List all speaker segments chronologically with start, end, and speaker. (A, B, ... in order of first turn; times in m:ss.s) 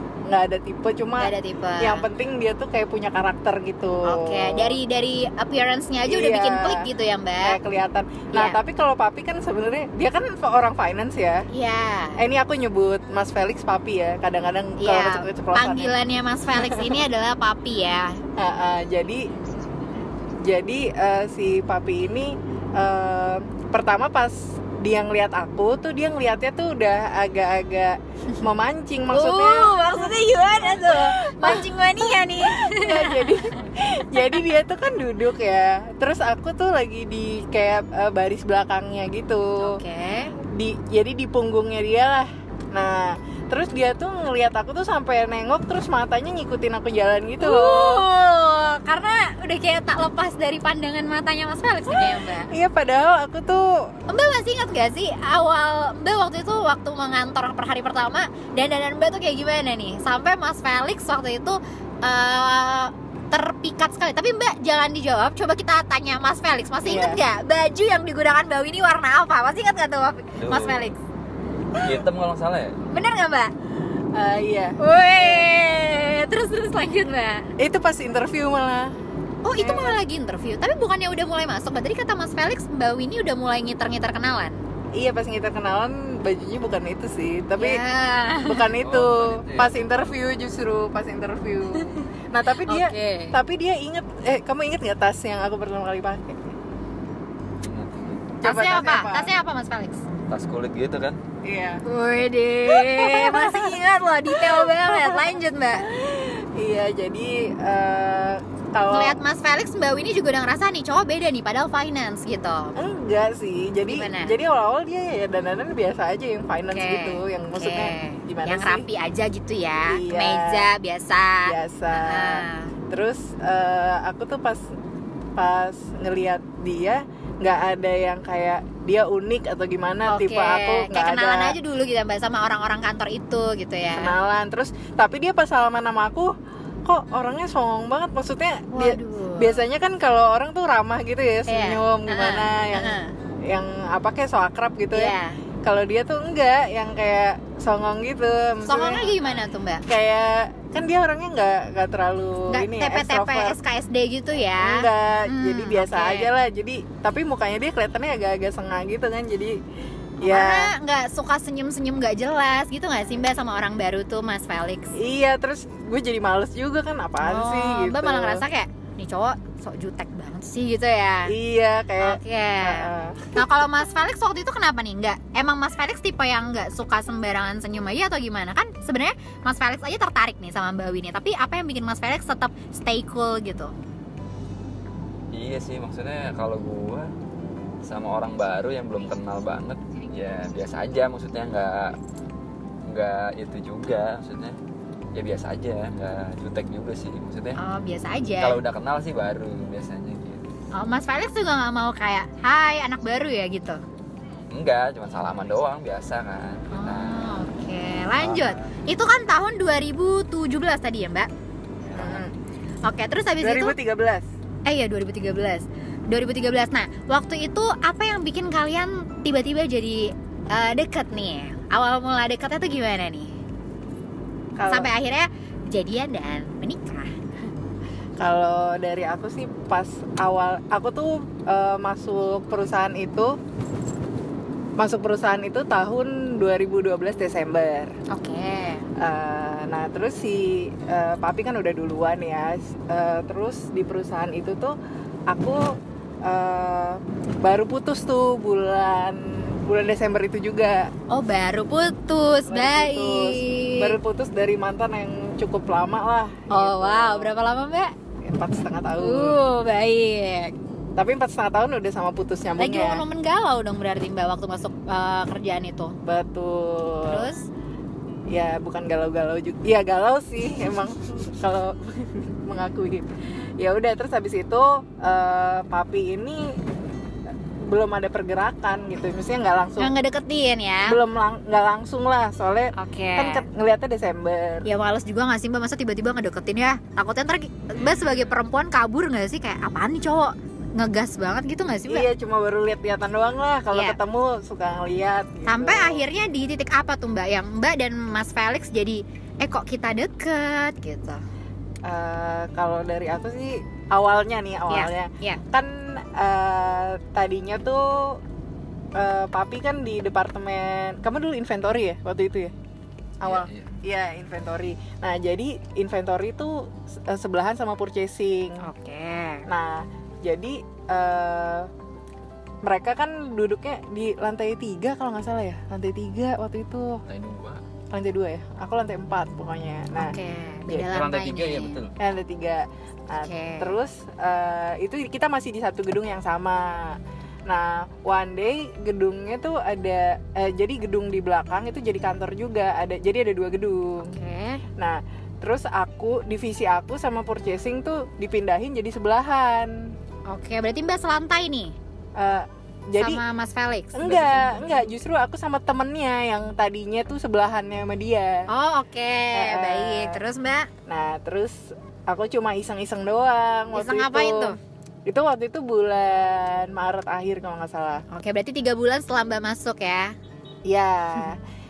0:00.2-0:04.8 A
0:01.2-0:02.1 B
0:04.0-0:07.6 B
0:06.1-0:06.9 A
0:07.4-0:11.5 A
0:08.3-0:08.6 B
0:11.5-0:12.3 B
0:12.2-0:16.0 A
0:14.8-0:18.2 B
0:16.5-0:17.0 A
0:18.4-0:19.3 A
0:20.4-0:39.8 A
0:29.1-0:33.4 B
0:39.6-0:40.3 B
0:40.4-0:48.0 A
0:47.4-0:52.5 B
0:51.9-0:53.9 A
0:54.1-1:11.0 B
1:06.8-1:07.2 A
1:10.4-1:10.9 C
1:11.8-1:12.8 C
1:12.9-1:13.5 B
1:14.1-1:15.5 A
1:14.8-1:17.5 B
1:17.6-1:18.9 A
1:19.4-1:24.6 B
1:19.6-1:20.0 A
1:24.9-1:27.8 A
1:27.6-1:28.7 B
1:28.4-1:36.4 A
1:28.8-1:30.1 C
1:31.7-1:32.0 B
1:32.6-1:33.4 B
1:37.6-1:38.3 C
1:38.4-1:39.3 A
1:38.4-1:40.0 B
1:40.3-1:41.2 C
1:41.4-1:41.8 A
1:41.8-1:45.9 B
1:42.6-1:43.8 A
1:44.3-1:49.2 A
1:48.9-1:52.8 B
1:52.8-1:58.9 A
1:53.9-1:54.3 B
1:56.7-2:02.7 B
1:59.8-2:00.7 A
2:01.4-2:04.7 A
2:05.4-2:11.6 A
2:10.1-2:14.2 B
2:13.9-2:16.3 A
2:16.8-2:29.1 A
2:18.7-2:19.6 B
2:21.5-2:23.1 B
2:24.9-2:25.4 B
2:28.6-2:29.8 B
2:29.0-2:29.4 C
2:29.8-2:33.6 A
2:32.5-2:36.3 B
2:34.6-2:39.6 A
2:40.2-2:45.0 B
2:40.2-2:40.7 A
2:44.9-2:48.4 A
2:47.2-2:51.3 B
2:51.3-2:53.4 A
2:52.0-3:03.7 B
3:05.3-3:07.1 C
3:07.8-3:12.0 C
3:12.8-3:14.6 C
3:15.1-3:17.6 C
3:17.6-3:18.6 B
3:18.4-3:20.4 C
3:20.7-3:23.8 B
3:24.5-3:27.5 C
3:26.7-3:31.3 B
3:28.2-3:28.8 C
3:31.8-3:32.2 C
3:32.0-3:32.3 A
3:32.8-3:33.7 B
3:33.4-3:34.2 A
3:34.6-3:43.3 B
3:44.6-3:44.9 A
3:44.7-3:47.1 B
3:48.2-3:53.3 A
3:54.8-3:57.9 A
3:58.1-3:58.8 B
3:59.0-4:04.7 A
4:05.3-4:10.9 A
4:11.1-4:14.0 B
4:12.5-4:17.3 A
4:16.5-4:17.9 B
4:18.2-4:19.4 A
4:19.0-4:20.5 B
4:21.0-4:23.0 A
4:22.6-4:26.0 B
4:26.0-4:27.3 A
4:27.1-4:27.5 B
4:28.3-4:36.6 A
4:37.6-4:39.9 A
4:39.8-4:41.0 B
4:40.8-4:44.7 A
4:42.8-4:43.4 B
4:44.6-4:52.1 B
4:51.9-4:56.0 A
4:55.4-5:01.2 B
5:01.8-5:08.2 A
5:04.7-5:05.4 B
5:08.9-5:12.5 A
5:13.2-5:18.6 A
5:13.2-5:13.7 C
5:18.6-5:19.5 B
5:19.5-5:21.7 A
5:22.6-5:27.0 A
5:27.1-5:27.6 C
5:27.9-5:30.2 A
5:30.0-5:31.8 B
5:30.7-5:31.9 C
5:32.0-5:44.2 A
5:33.2-5:33.7 B
5:44.0-5:44.6 B
5:44.8-5:49.9 A
5:50.3-5:51.7 B
5:52.2-5:53.2 A
5:53.0-5:54.0 B
5:53.9-5:58.5 A
5:54.0-5:54.8 C
5:58.5-6:00.7 B
5:59.3-6:00.2 A
6:00.9-6:04.5 A
6:03.7-6:04.6 B
6:05.0-6:08.0 A
6:08.1-6:10.1 B
6:10.6-6:11.4 A